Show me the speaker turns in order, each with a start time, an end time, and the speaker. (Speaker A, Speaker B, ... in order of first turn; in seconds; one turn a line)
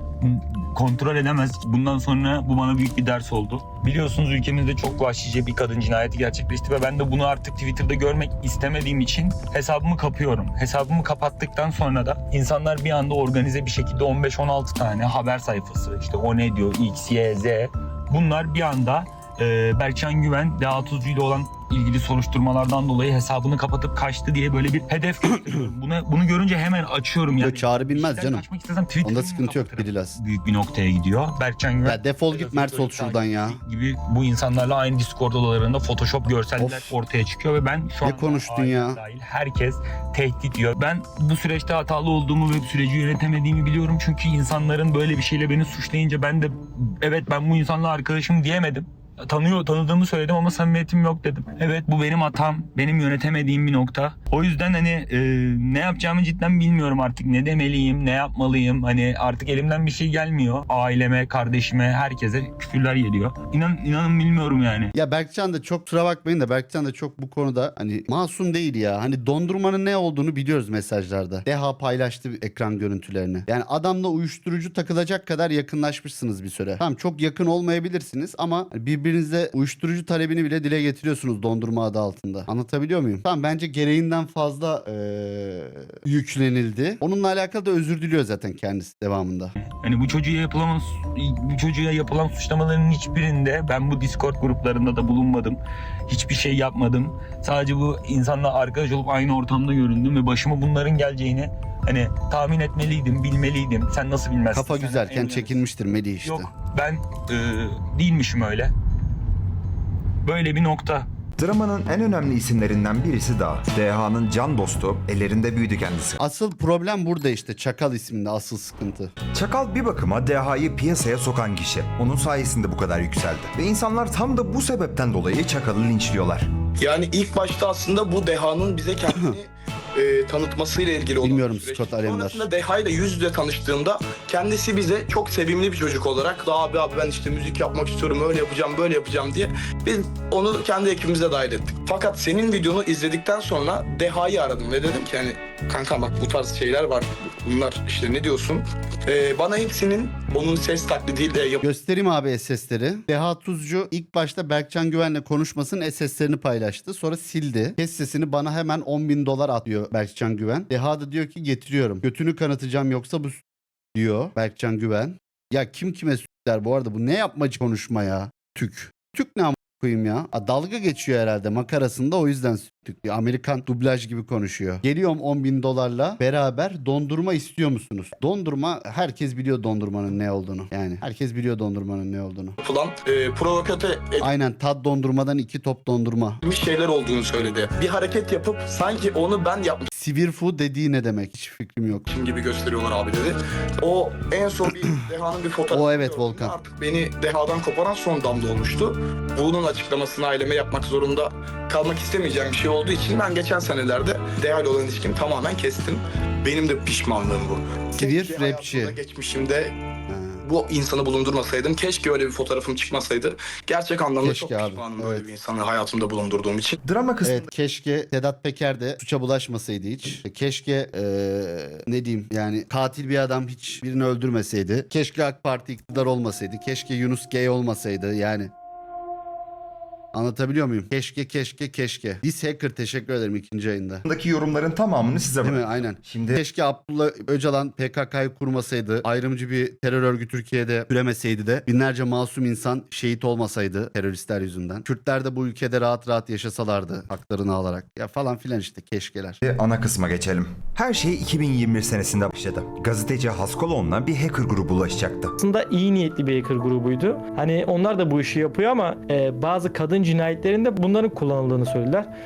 Speaker A: 0.2-64.9
Speaker B: 27.4-28.4
Speaker B: 29.0-30.2
Speaker B: 31.8-33.6
Speaker B: 36.6-36.9
Speaker B: 38.0-39.0
Speaker B: 64.9-89.5
Speaker A: 89.6-95.6
Speaker A: 96.1-105.6
Speaker B: 104.5-106.5
Speaker A: 106.2-108.7
Speaker A: 110.2-111.1
Speaker C: 111.4-116.2
Speaker B: 116.2-119.1
Speaker C: 119.3-126.5
Speaker D: 126.8-151.6
Speaker B: 131.2-132.4
Speaker B: 151.6-163.4
Speaker B: 163.9-182.6
Speaker D: 182.6-184.2
Speaker B: 184.2-186.4
Speaker D: 186.4-189.9
Speaker B: 189.9-192.1
Speaker D: 192.1-209.7
Speaker B: 195.7-196.5
Speaker B: 208.0-208.9
Speaker B: 210.1-210.4
Speaker D: 210.4-216.8
Speaker B: 214.2-215.3
Speaker C: 216.8-217.5
Speaker B: 217.2-228.5
Speaker B: 230.1-234.0
Speaker C: 234.1-236.4
Speaker B: 235.4-249.4
Speaker C: 249.4-255.3
Speaker E: 255.4-262.1